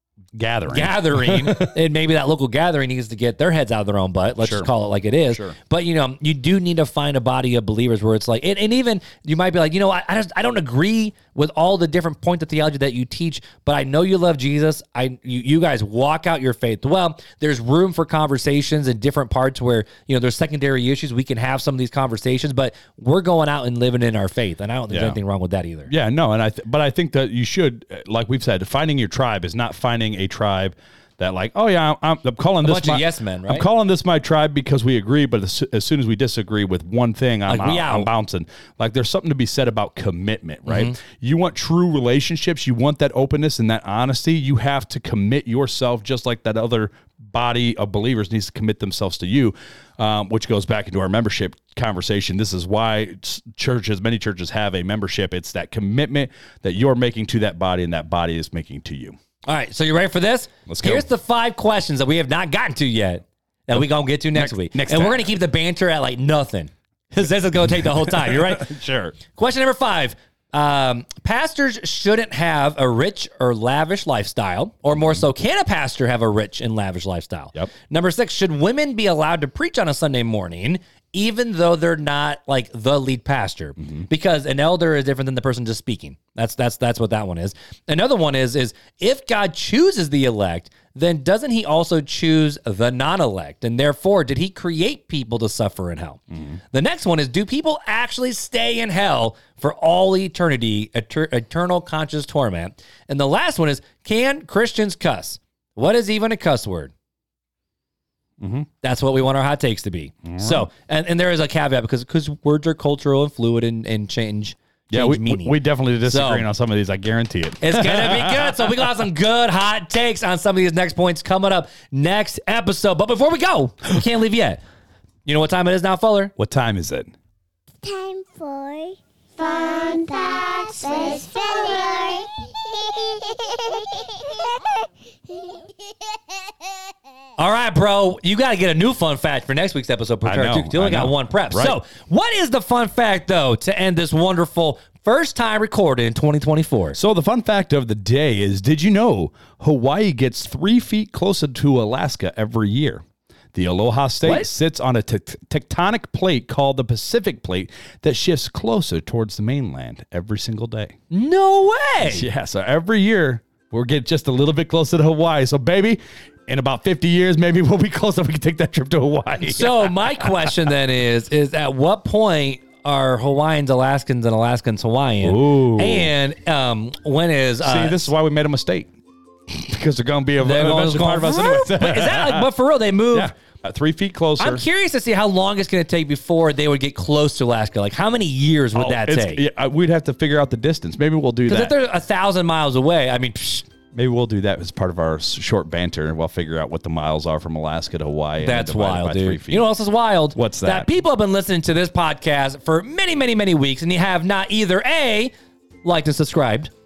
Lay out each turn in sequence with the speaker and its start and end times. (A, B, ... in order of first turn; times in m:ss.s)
0:00.3-0:01.7 A
0:00.7-0:25.9 B
0:04.4-0:04.7 A
0:05.3-0:05.6 A
0:24.9-0:25.2 A
0:25.9-0:59.2 A
0:32.6-0:33.7 B
0:37.5-0:38.1 B
0:40.7-0:41.0 B
0:59.5-1:46.9 B
1:00.7-1:01.0 A
1:04.3-1:05.3 A
1:07.8-1:09.2 A
1:48.4-1:48.7 A
1:48.8-1:56.4 B
1:50.2-1:50.7 A
1:54.9-1:59.0 A
1:57.6-2:04.6 B
2:05.2-2:06.3 B
2:06.4-2:07.1 A
2:07.8-2:14.8 C
2:15.3-2:15.7 C
2:17.4-2:27.0 B
2:20.2-2:21.8 A
2:27.0-2:33.0 A
2:33.5-2:41.0 A
2:41.1-2:42.2 B
2:42.0-2:50.6 A
2:49.4-2:58.1 B
2:55.2-2:56.1 A
2:57.6-2:58.9 A
2:59.5-3:02.5 A
3:00.4-3:03.3 B
3:03.1-3:04.6 A
3:04.4-3:09.4 B
3:08.7-3:11.7 A
3:11.5-3:13.7 B
3:13.9-3:19.6 A
3:18.4-3:25.3 B
3:20.3-3:20.9 A
3:25.8-3:26.7 B